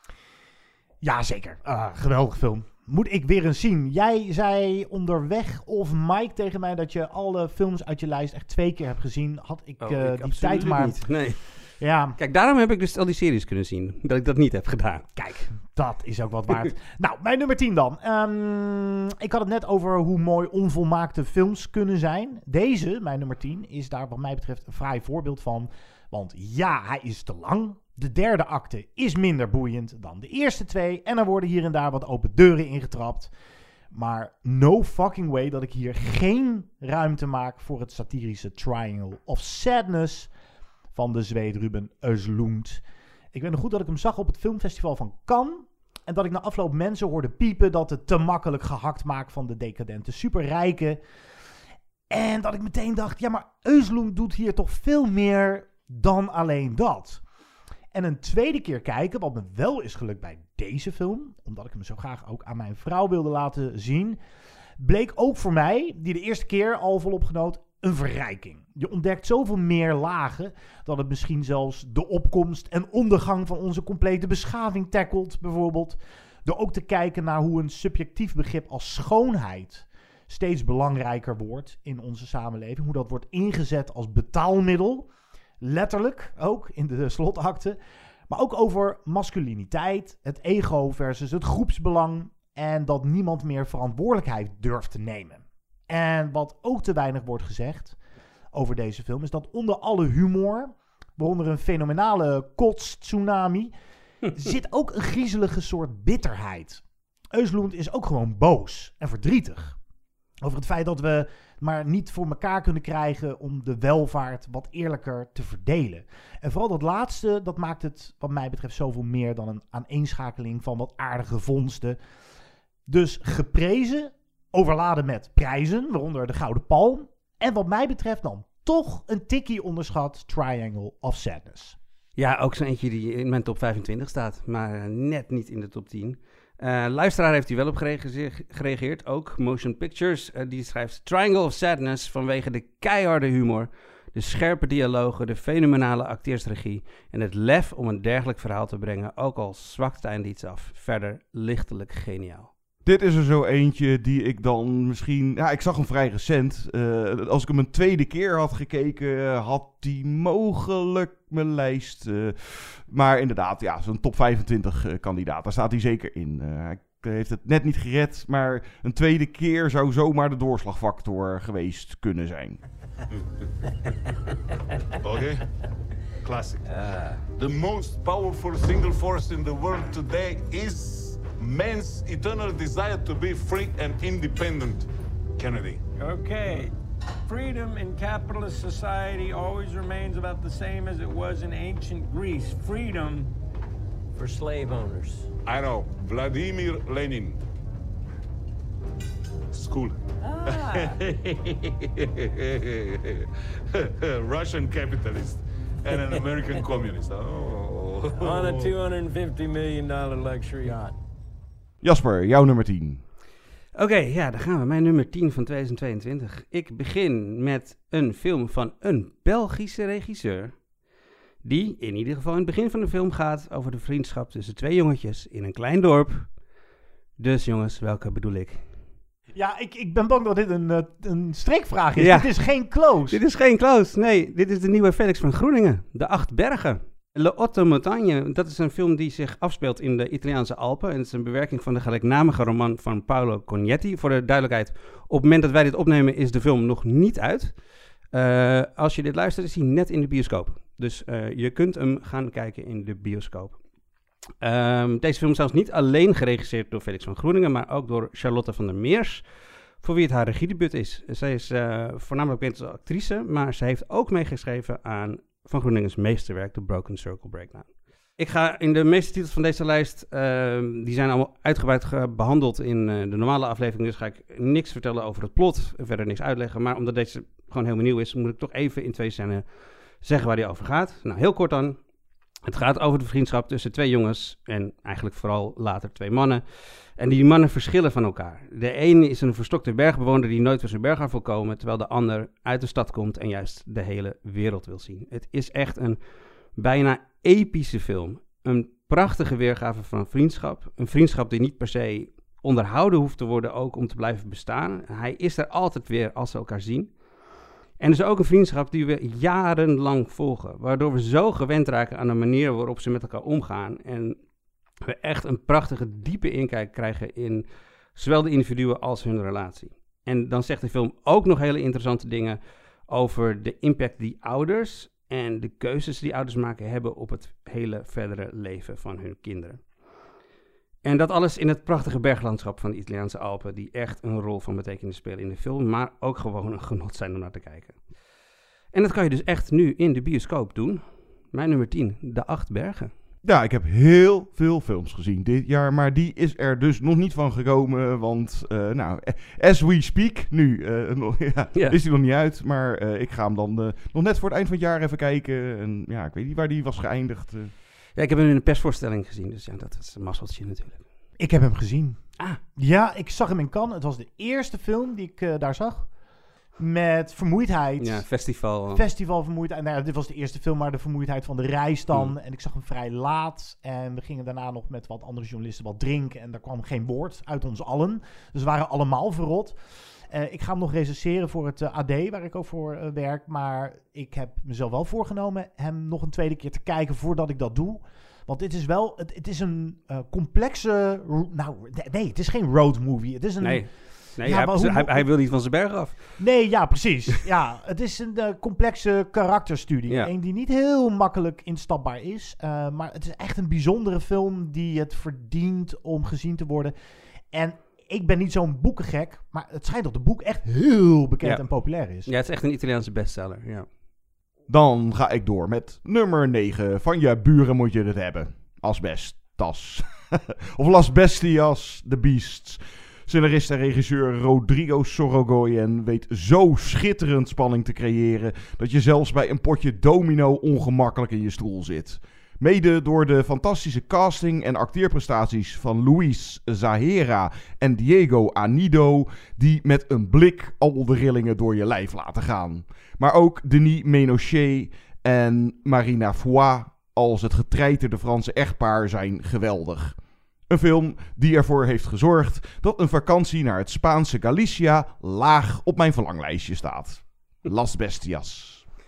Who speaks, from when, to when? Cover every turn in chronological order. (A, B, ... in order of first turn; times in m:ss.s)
0:01.0-0:11.0 A
0:09.8-0:15.1 B
0:11.8-0:12.2 A
0:15.2-0:33.3 A
0:33.9-0:40.3 A
0:40.9-0:42.8 A
0:43.3-0:51.0 A
0:52.1-0:57.2 A
0:57.9-1:04.2 A
1:04.8-1:25.1 A
1:25.6-1:27.8 A
1:28.3-1:38.0 A
1:38.5-1:43.7 A
1:44.4-1:46.8 A
1:47.3-1:49.8 A
1:50.4-2:02.0 A
2:02.9-2:11.8 A
2:12.2-2:32.5 B
2:32.8-2:52.6 C
2:55.0-2:55.4 D
2:56.2-3:05.8 D
3:06.0-3:06.7 E
3:07.3-3:13.3 E
3:14.2-3:15.3 E
3:15.4-3:17.4 D
3:19.5-3:23.3 D
3:20.2-3:21.0 E
3:23.8-3:28.8 D
3:28.2-3:30.9 E
3:31.8-3:33.0 C
3:33.8-3:40.6 B
3:41.4-3:46.3 B
3:47.2-3:48.7 B
3:49.3-3:53.2 A
3:52.0-3:52.4 B
3:53.1-4:07.6 B
4:08.1-4:13.6 B
4:14.4-4:19.2 B
4:19.8-4:39.4 B
4:40.0-4:41.8 B
4:42.5-4:56.0 B
4:56.6-5:06.9 B
5:07.8-5:14.2 B
5:14.8-5:17.4 B
5:18.0-5:29.6 B
5:30.8-5:37.8 B
5:38.7-5:42.9 B
5:43.2-5:57.5 C
5:58.0-6:00.8 B
6:01.2-6:02.0 A
6:02.6-6:05.9 A
6:06.6-6:08.1 A
6:07.8-6:08.8 B
6:08.7-6:19.6 A
6:20.1-6:35.1 A
6:33.4-6:36.3 B
6:36.2-6:46.7 A
6:47.3-6:52.1 A
6:51.2-6:53.7 B
6:54.5-7:30.0 C
7:30.5-7:38.6 C